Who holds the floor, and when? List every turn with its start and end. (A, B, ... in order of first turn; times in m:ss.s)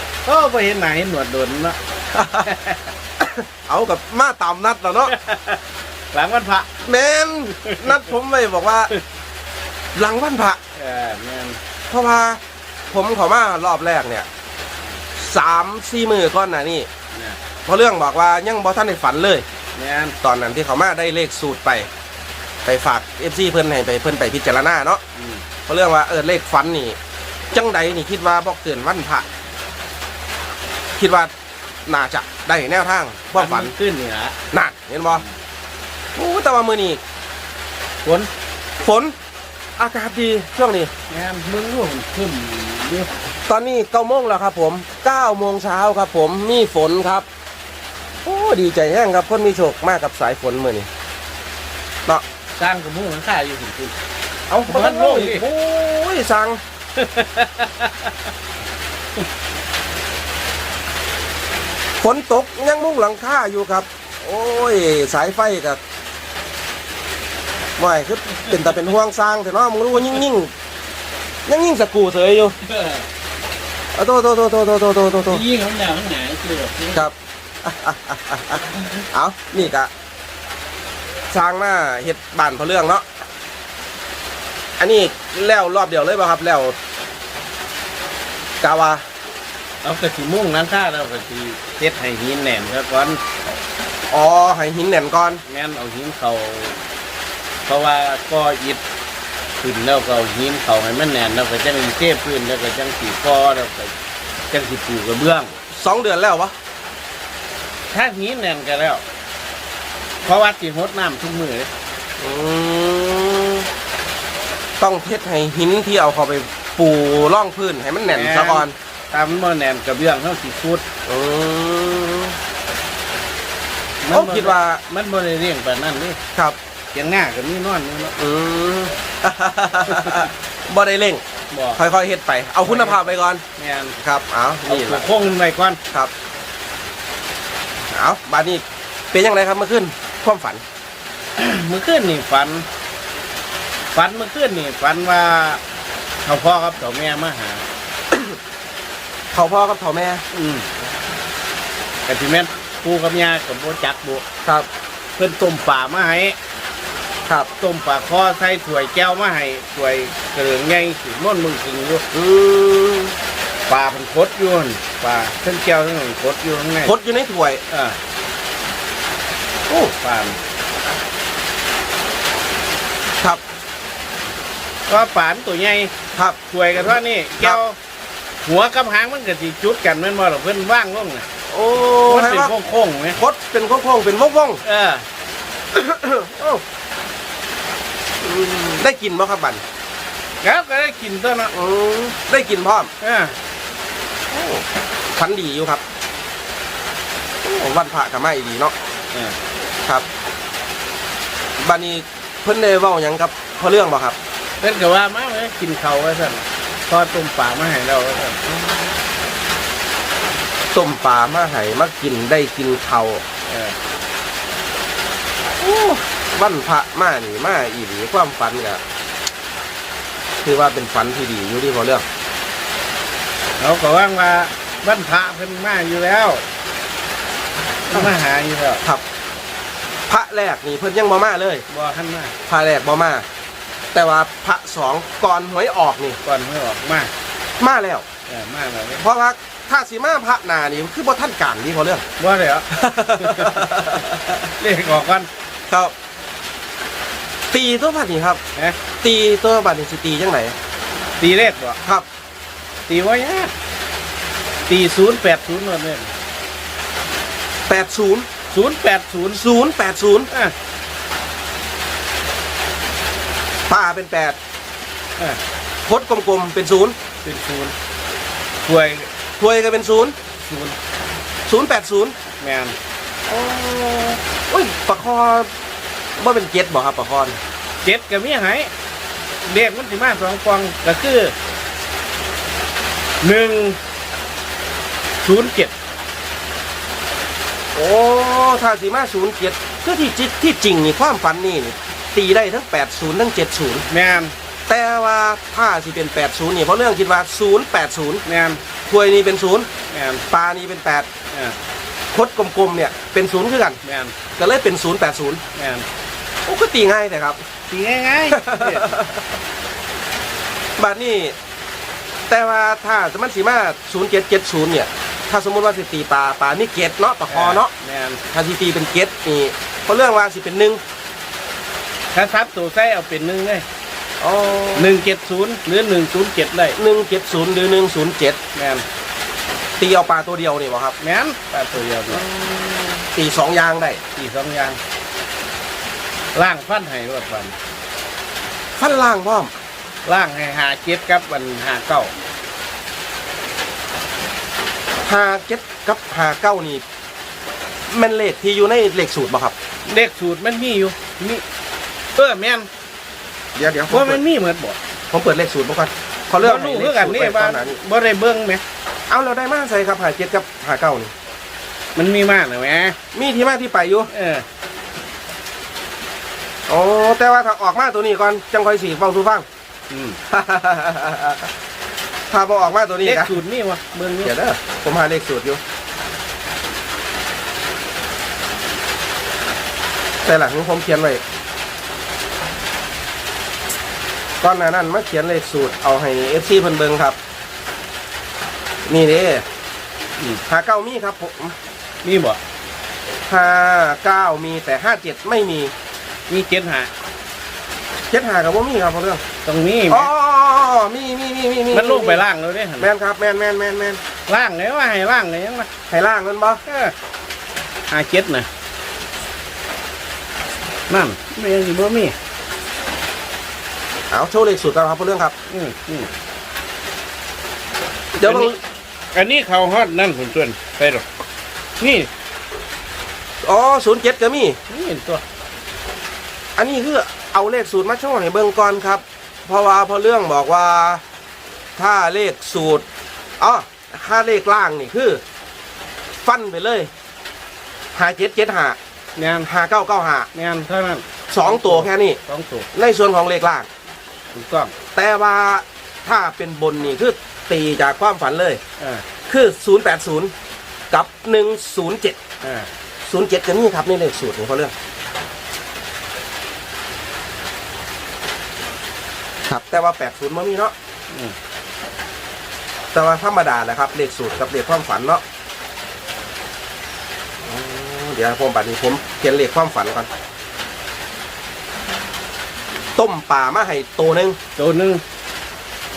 0:00.2-0:01.8 A
0:02.1-0:02.5 B
0:02.4-0:02.9 A
0:03.2-0:05.1 B
0:05.1-0:05.6 A
0:06.1-0:06.7 A
0:06.8-0:08.9 B
0:07.7-0:08.0 A
0:10.0-0:10.6 B
0:10.8-0:11.6 A
0:11.9-0:12.4 B
0:12.9-0:14.3 B
0:15.2-0:16.9 B
0:17.1-0:17.4 A
0:17.7-0:19.4 B
0:19.8-0:20.2 A
0:20.2-0:21.9 B
0:22.6-0:25.0 B
0:25.2-0:25.4 A
0:25.7-0:27.0 B
0:27.5-0:29.3 B
0:31.0-0:31.3 B
0:31.9-0:33.7 B
0:33.3-0:34.4 A
0:34.5-0:35.2 B
0:36.2-0:37.0 B
0:38.8-0:39.1 B
0:39.8-0:40.9 B
0:41.1-0:43.1 A
0:43.5-0:47.3 B
0:48.2-0:50.9 B
0:52.6-0:54.0 A
0:54.5-0:55.4 A
0:54.6-0:56.6 B
0:57.0-0:58.1 A
1:02.0-1:05.8 B
1:07.8-1:10.5 B
1:08.3-1:08.7 A
1:11.5-1:12.6 B
1:12.7-1:13.0 A
1:14.0-1:15.4 B
1:15.2-1:17.1 A
1:16.9-1:19.9 B
1:21.3-1:23.0 B
1:24.8-1:26.8 B
1:28.6-1:29.0 B
1:29.8-1:33.2 A
1:34.1-1:35.4 B
1:35.5-1:36.8 A
1:37.7-1:38.8 A
1:39.6-1:43.9 A
1:44.5-1:45.6 A
1:45.7-1:46.5 B
1:47.9-1:49.0 A
1:50.2-1:51.7 A
1:52.2-1:53.7 B
1:54.8-1:58.8 B
1:58.1-2:00.8 A
2:01.1-2:02.4 B
2:04.0-2:06.2 A
2:04.1-2:04.8 B
2:06.9-2:08.2 A
2:08.2-2:11.2 B
2:09.9-2:10.3 A
2:11.5-2:11.8 A
2:11.8-2:13.4 B
2:12.6-2:14.0 A
2:14.0-2:15.0 B
2:14.7-2:15.8 A
2:17.9-2:20.6 B
2:21.4-2:22.7 A
2:23.9-2:25.6 A
2:26.2-2:27.6 A
2:28.1-2:28.4 B
2:29.3-2:30.2 B
2:30.3-2:30.7 A
2:32.1-2:34.2 A
2:35.2-2:36.4 A
2:37.6-2:42.0 A
2:42.1-2:43.2 B
2:43.7-2:46.9 A
2:46.8-2:47.6 B
2:47.7-2:48.0 A
2:49.8-2:50.4 A
2:54.9-2:55.9 A
2:56.2-2:57.6 B
2:56.5-2:57.8 A
2:58.4-3:01.3 A
3:01.5-3:02.6 B
3:02.1-3:03.2 A
3:03.2-3:04.6 B
3:04.6-3:05.0 A
3:05.7-3:06.6 B
3:08.2-3:09.6 B
3:10.4-3:11.5 A
3:11.5-3:12.9 B
3:13.0-3:13.4 A
3:14.3-3:15.8 B
3:17.4-3:18.7 B
3:21.6-3:24.2 B
3:24.6-3:28.4 A
3:28.5-3:28.8 B
3:30.7-3:33.2 B
3:33.5-3:33.8 A
3:35.6-3:38.8 B
3:40.4-3:42.0 B
3:43.6-3:46.4 A
3:47.9-3:48.8 A
3:50.1-3:51.6 B
3:51.7-3:52.3 A
3:52.5-3:53.2 B
3:53.9-3:56.2 B
3:56.2-3:57.1 A
3:57.6-3:58.1 B
3:58.3-3:59.0 A
3:59.0-4:02.0 B
4:02.2-4:03.7 A
4:02.7-4:04.4 B
4:04.6-4:05.3 A
4:07.5-4:08.4 B
4:09.0-4:10.6 B
4:11.2-4:11.8 A
4:12.9-4:13.5 A
4:14.7-4:16.1 A
4:17.7-4:18.3 B
4:18.5-4:19.4 A
4:19.3-4:20.3 B
4:23.7-4:24.4 B
4:25.9-4:27.0 B
4:27.2-4:27.7 A
4:28.6-4:29.1 A
4:29.4-4:30.2 B
4:30.4-4:30.8 A
4:31.5-4:32.2 B
4:32.4-4:32.8 A
4:33.3-4:35.5 B
4:36.2-4:37.4 B
4:37.8-4:38.7 A
4:39.4-4:41.4 A
4:43.2-4:43.8 A
4:45.2-4:45.7 A
4:47.7-4:53.9 B
4:53.9-4:54.3 A
4:54.7-4:58.2 B
4:58.3-4:58.6 A
4:58.9-4:59.7 B
4:59.9-5:00.2 A
5:00.3-5:01.1 B
5:02.1-5:03.8 B
5:03.8-5:04.2 A
5:04.4-5:05.4 B
5:05.5-5:05.9 A
5:06.5-5:07.4 B
5:07.7-5:09.0 A
5:08.3-5:09.2 B
5:10.8-5:11.4 B
5:12.3-5:17.7 B
5:17.3-5:18.2 A
5:18.3-5:20.8 B
5:22.1-5:23.6 A
5:24.2-5:25.0 B
5:24.8-5:26.8 A
5:26.8-5:28.4 B
5:28.6-5:28.8 A
5:29.8-5:31.0 B
5:31.0-5:32.2 A
5:32.1-5:34.0 B
5:34.2-5:34.8 A
5:36.4-5:37.6 A
5:38.8-5:39.5 B
5:40.1-5:42.1 A
5:45.0-5:46.8 B
5:47.9-5:49.6 B
5:49.9-5:51.4 A
5:52.2-5:52.7 A
5:53.6-5:54.2 B
5:53.9-5:54.8 A
5:55.1-5:57.8 B
5:56.4-5:58.6 A
5:59.1-6:01.1 B
6:02.0-6:03.0 A
6:03.1-6:04.1 B
6:04.1-6:04.4 A
6:06.7-6:09.5 B
6:09.9-6:10.2 A
6:10.3-6:11.5 B
6:12.3-6:13.4 B
6:13.0-6:14.3 A
6:14.2-6:15.6 B
6:20.2-6:21.2 B
6:24.4-6:27.2 B
6:28.9-6:29.4 B
6:30.5-6:31.6 B
6:32.0-6:32.4 A
6:33.3-6:35.7 B
6:36.3-6:36.9 A
6:38.1-6:39.2 B
6:39.4-6:40.1 A
6:39.9-6:42.2 B
6:41.7-6:42.9 A
6:42.8-6:44.0 B
6:44.3-6:45.7 A
6:45.9-6:46.6 B
6:46.6-6:46.9 A
6:47.9-6:48.5 A
6:50.9-6:52.2 A
6:54.1-6:55.3 B
6:55.5-6:56.1 A
6:58.2-6:58.6 A
6:58.2-6:58.5 B
6:59.1-7:01.1 A
7:01.8-7:02.1 A
7:03.4-7:04.6 B
7:04.7-7:05.2 A
7:06.6-7:11.0 B
7:11.8-7:12.8 B
7:13.4-7:15.2 B
7:16.2-7:16.9 B
7:18.0-7:18.8 B
7:19.2-7:19.5 A
7:19.5-7:20.3 B
7:20.3-7:22.7 A
7:21.3-7:22.2 B
7:22.7-7:23.7 B
7:24.3-7:24.8 A
7:25.0-7:28.6 B
7:28.8-7:29.1 A
7:29.3-7:30.3 B
7:30.9-7:32.2 B
7:32.4-7:32.7 A
7:33.0-7:34.7 B
7:39.5-7:40.7 B
7:42.9-7:45.2 B
7:47.5-7:50.1 B
7:53.0-7:54.4 B
7:54.6-7:55.0 A